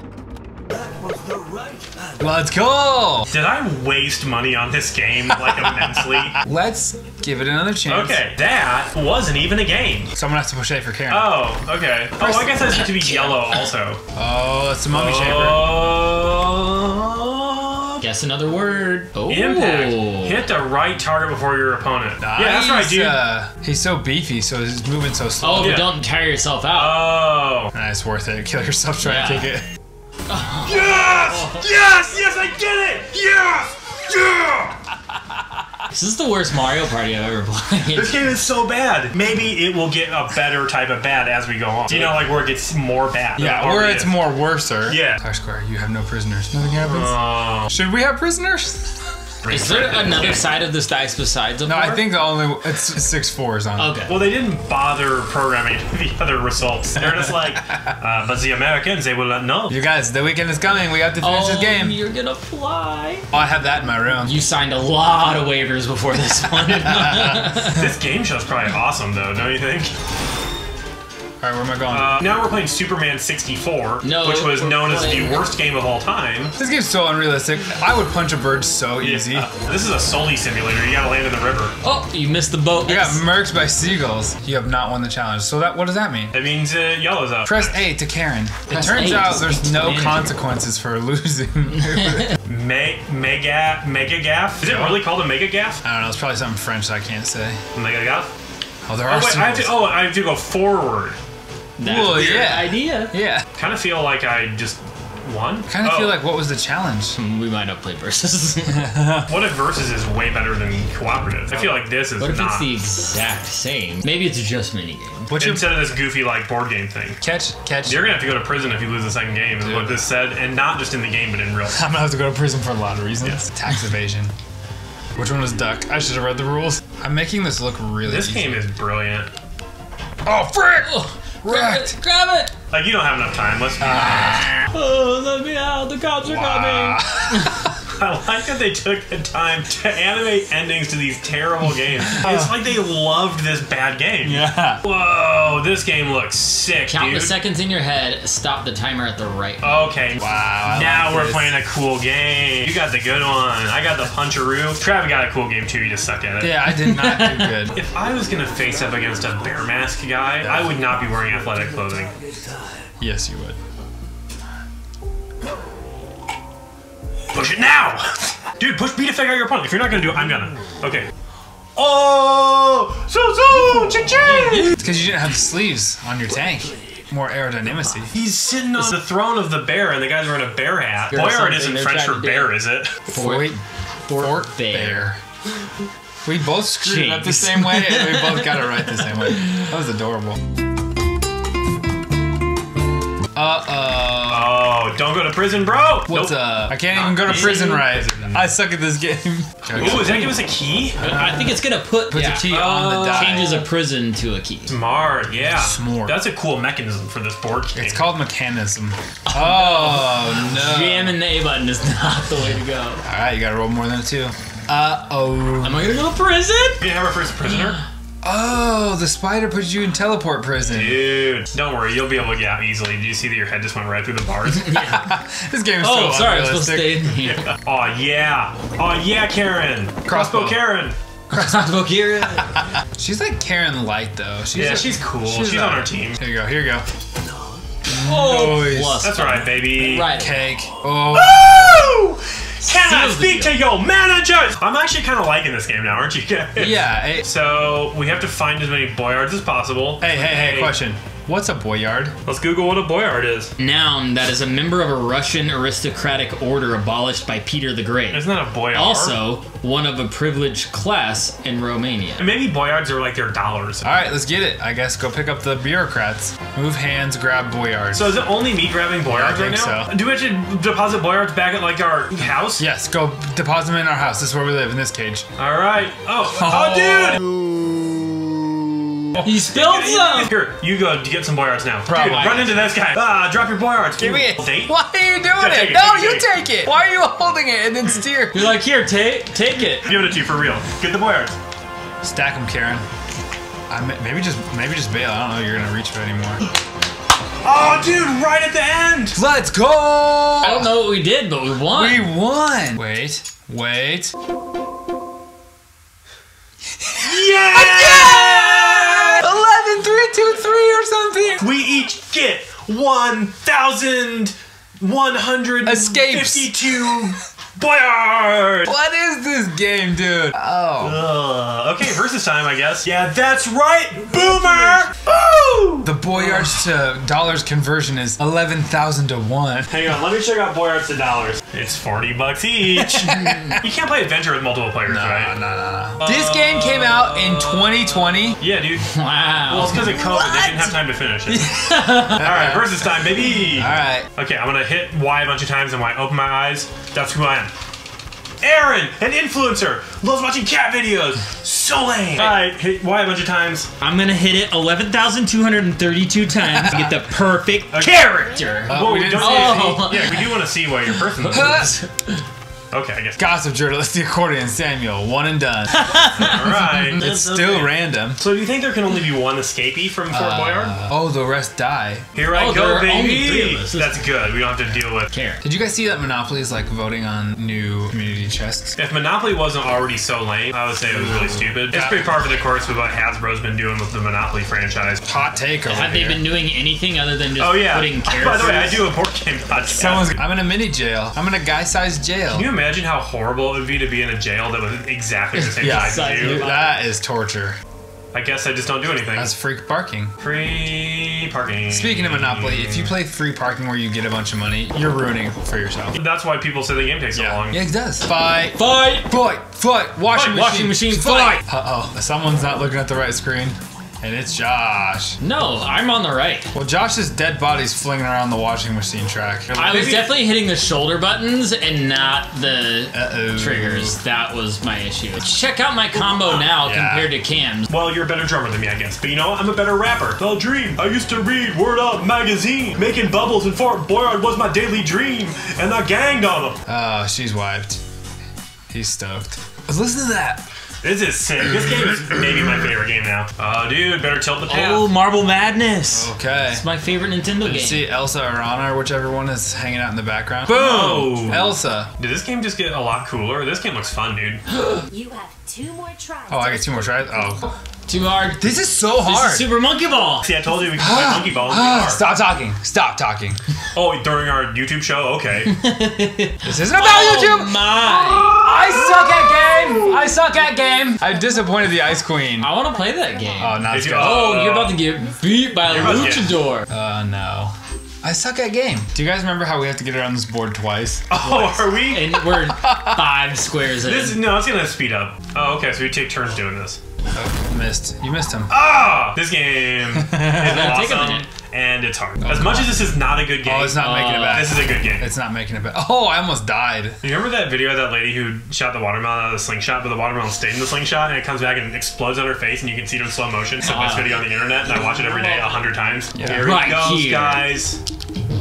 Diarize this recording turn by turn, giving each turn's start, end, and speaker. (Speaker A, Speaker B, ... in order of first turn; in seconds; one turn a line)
Speaker A: 2.2-3.3
Speaker B: 3.3-6.4
Speaker A: 5.3-8.2
Speaker B: 7.8-10.1
Speaker A: 10.2-11.5
Speaker B: 11.1-14.0
Speaker A: 12.2-13.4
Speaker A: 14.1-15.8
Speaker B: 14.9-18.0
Speaker C: 18.0-20.4
Speaker B: 19.3-23.3
Speaker A: 22.2-25.9
Speaker C: 25.4-27.1
Speaker B: 25.6-25.9
Speaker B: 26.7-27.7
Speaker A: 27.7-29.6
Speaker C: 29.0-29.5
Speaker C: 30.3-31.6
Speaker B: 30.6-34.8
Speaker C: 35.9-38.2
Speaker B: 37.9-44.2
Speaker A: 43.4-49.0
Speaker B: 44.9-45.2
Speaker B: 46.8-47.8
Speaker B: 49.4-50.5
Speaker C: 49.5-52.0
Speaker A: 51.6-53.9
Speaker C: 53.8-54.2
Speaker B: 54.1-59.8
Speaker A: 59.7-62.0
Speaker C: 61.2-63.3
Speaker A: 63.3-64.4
Speaker C: 64.2-67.9
Speaker A: 66.7-67.9
Speaker B: 67.6-69.9
Speaker A: 71.4-72.3
Speaker B: 71.9-76.5
Speaker C: 74.0-75.5
Speaker A: 76.6-79.5
Speaker B: 79.0-81.7
Speaker C: 81.8-83.2
Speaker A: 82.8-86.3
Speaker B: 86.3-87.8
Speaker A: 87.5-92.4
Speaker C: 88.7-90.3
Speaker B: 92.4-95.8
Speaker A: 94.6-95.0
Speaker A: 95.8-97.6
Speaker B: 97.7-98.3
Speaker A: 98.9-99.8
Speaker B: 99.0-101.2
Speaker C: 101.8-103.2
Speaker A: 101.8-103.5
Speaker B: 103.6-106.2
Speaker A: 105.7-107.2
Speaker C: 107.1-108.9
Speaker A: 108.7-109.4
Speaker B: 109.3-112.7
Speaker A: 111.5-111.8
Speaker C: 112.2-115.3
Speaker A: 115.3-115.8
Speaker B: 115.4-117.2
Speaker A: 117.2-118.0
Speaker B: 117.8-121.8
Speaker A: 119.6-120.0
Speaker A: 121.7-124.3
Speaker A: 125.2-128.6
Speaker B: 128.1-129.3
Speaker A: 130.2-132.0
Speaker C: 130.8-132.5
Speaker B: 132.7-134.5
Speaker A: 133.8-134.5
Speaker C: 133.8-137.5
Speaker A: 136.2-137.7
Speaker B: 137.9-147.3
Speaker A: 142.1-142.6
Speaker A: 144.2-144.8
Speaker C: 146.9-149.9
Speaker B: 149.6-156.5
Speaker A: 150.2-151.5
Speaker A: 156.4-157.8
Speaker C: 156.7-157.5
Speaker B: 157.7-162.2
Speaker A: 160.4-160.7
Speaker A: 163.0-163.6
Speaker B: 167.3-171.1
Speaker B: 171.8-174.8
Speaker A: 174.6-178.1
Speaker B: 178.1-183.1
Speaker C: 181.1-182.5
Speaker C: 183.1-185.1
Speaker A: 183.1-183.6
Speaker A: 184.2-185.2
Speaker A: 186.2-190.4
Speaker C: 186.7-189.7
Speaker A: 193.3-194.6
Speaker B: 194.3-198.4
Speaker A: 196.1-200.3
Speaker B: 199.7-201.0
Speaker C: 199.8-200.2
Speaker C: 201.0-204.7
Speaker A: 201.0-203.6
Speaker B: 202.4-203.6
Speaker B: 204.7-208.1
Speaker A: 205.6-206.2
Speaker A: 207.7-211.2
Speaker C: 209.3-213.0
Speaker A: 213.0-216.0
Speaker C: 215.6-216.8
Speaker B: 216.8-217.8
Speaker A: 218.2-221.1
Speaker B: 220.6-224.8
Speaker C: 224.4-225.2
Speaker A: 224.8-227.1
Speaker C: 225.8-227.5
Speaker B: 227.2-231.0
Speaker A: 230.1-230.6
Speaker C: 231.3-232.5
Speaker A: 231.3-231.7
Speaker A: 232.3-236.8
Speaker B: 234.5-236.2
Speaker A: 237.9-239.1
Speaker C: 237.9-240.5
Speaker B: 239.0-240.1
Speaker A: 240.1-241.5
Speaker B: 241.1-250.8
Speaker C: 242.6-243.6
Speaker A: 246.6-247.3
Speaker A: 250.0-252.1
Speaker B: 252.2-253.5
Speaker C: 253.6-262.3
Speaker B: 258.1-259.2
Speaker B: 262.2-263.9
Speaker A: 263.8-268.2
Speaker B: 267.9-272.6
Speaker A: 269.1-269.9
Speaker A: 272.6-275.2
Speaker B: 275.4-277.2
Speaker A: 276.3-279.3
Speaker C: 279.2-280.3
Speaker B: 279.5-284.7
Speaker A: 281.9-282.4
Speaker C: 281.9-282.7
Speaker A: 284.0-288.6
Speaker B: 285.3-286.3
Speaker C: 288.3-289.9
Speaker B: 289.8-291.4
Speaker A: 292.0-292.8
Speaker A: 293.7-296.4
Speaker B: 297.4-299.2
Speaker A: 299.1-300.8
Speaker C: 300.4-302.1
Speaker A: 301.7-304.1
Speaker A: 306.8-311.4
Speaker B: 307.0-309.3
Speaker B: 311.4-318.7
Speaker A: 315.6-317.1
Speaker A: 318.6-321.1
Speaker B: 320.8-326.6
Speaker A: 325.8-329.7
Speaker B: 329.7-335.4
Speaker A: 332.8-333.6
Speaker C: 333.1-333.6
Speaker A: 334.9-338.4
Speaker B: 336.0-338.9
Speaker C: 338.8-339.9
Speaker B: 339.5-347.5
Speaker A: 339.7-340.7
Speaker A: 341.3-344.1
Speaker C: 341.6-342.2
Speaker B: 348.4-353.7
Speaker C: 353.8-362.2
Speaker A: 356.5-357.0
Speaker B: 357.7-358.1
Speaker A: 358.7-359.8
Speaker B: 358.7-361.7
Speaker A: 361.3-361.7
Speaker B: 362.7-363.2
Speaker A: 363.2-365.9
Speaker C: 365.7-367.3
Speaker B: 366.1-370.7
Speaker A: 366.7-368.2
Speaker C: 370.1-370.8
Speaker A: 370.3-372.1
Speaker B: 372.1-375.1
Speaker C: 372.3-374.0
Speaker C: 375.1-375.4
Speaker A: 375.4-378.8
Speaker B: 378.8-385.1
Speaker A: 381.7-382.1
Speaker A: 385.1-386.2
Speaker C: 385.6-388.9
Speaker B: 387.4-390.2
Speaker A: 389.7-392.5
Speaker B: 392.3-396.5
Speaker C: 395.4-396.8
Speaker A: 395.6-397.6
Speaker B: 398.1-399.3
Speaker A: 399.1-400.1
Speaker B: 400.2-403.0
Speaker A: 401.7-405.9
Speaker B: 405.9-407.6
Speaker A: 407.1-415.2
Speaker C: 408.5-409.1
Speaker C: 410.1-411.4
Speaker C: 415.2-416.5
Speaker A: 416.5-419.6
Speaker C: 419.5-427.7
Speaker B: 419.6-420.1
Speaker A: 422.9-424.0
Speaker B: 426.1-426.4
Speaker A: 426.5-427.1
Speaker B: 427.7-436.6
Speaker A: 436.7-437.8
Speaker A: 438.7-440.4
Speaker B: 440.8-444.9
Speaker C: 444.5-447.9
Speaker A: 445.9-446.6
Speaker A: 447.4-451.9
Speaker B: 450.5-454.4
Speaker D: 454.9-457.2
Speaker A: 456.3-457.5
Speaker C: 457.9-460.3
Speaker A: 458.4-459.5
Speaker B: 460.2-462.0
Speaker A: 460.8-463.4
Speaker B: 463.7-465.6
Speaker C: 465.5-468.4
Speaker A: 466.4-472.5
Speaker C: 469.0-469.2
Speaker D: 471.0-472.0
Speaker C: 472.4-476.7
Speaker D: 473.0-473.5
Speaker A: 473.4-474.3
Speaker B: 473.7-474.8
Speaker D: 475.1-475.8
Speaker B: 475.7-476.4
Speaker A: 475.7-476.0
Speaker A: 476.7-481.1
Speaker B: 481.1-482.1
Speaker C: 481.2-484.2
Speaker A: 482.0-483.1
Speaker B: 483.8-486.8
Speaker A: 487.1-488.5
Speaker B: 488.5-495.1
Speaker A: 489.9-490.9
Speaker C: 490.3-491.3
Speaker C: 492.2-492.7
Speaker A: 492.3-492.7
Speaker A: 493.4-497.0
Speaker C: 493.7-494.6
Speaker B: 497.0-507.8
Speaker C: 503.6-505.4
Speaker A: 506.1-506.5
Speaker C: 506.4-507.5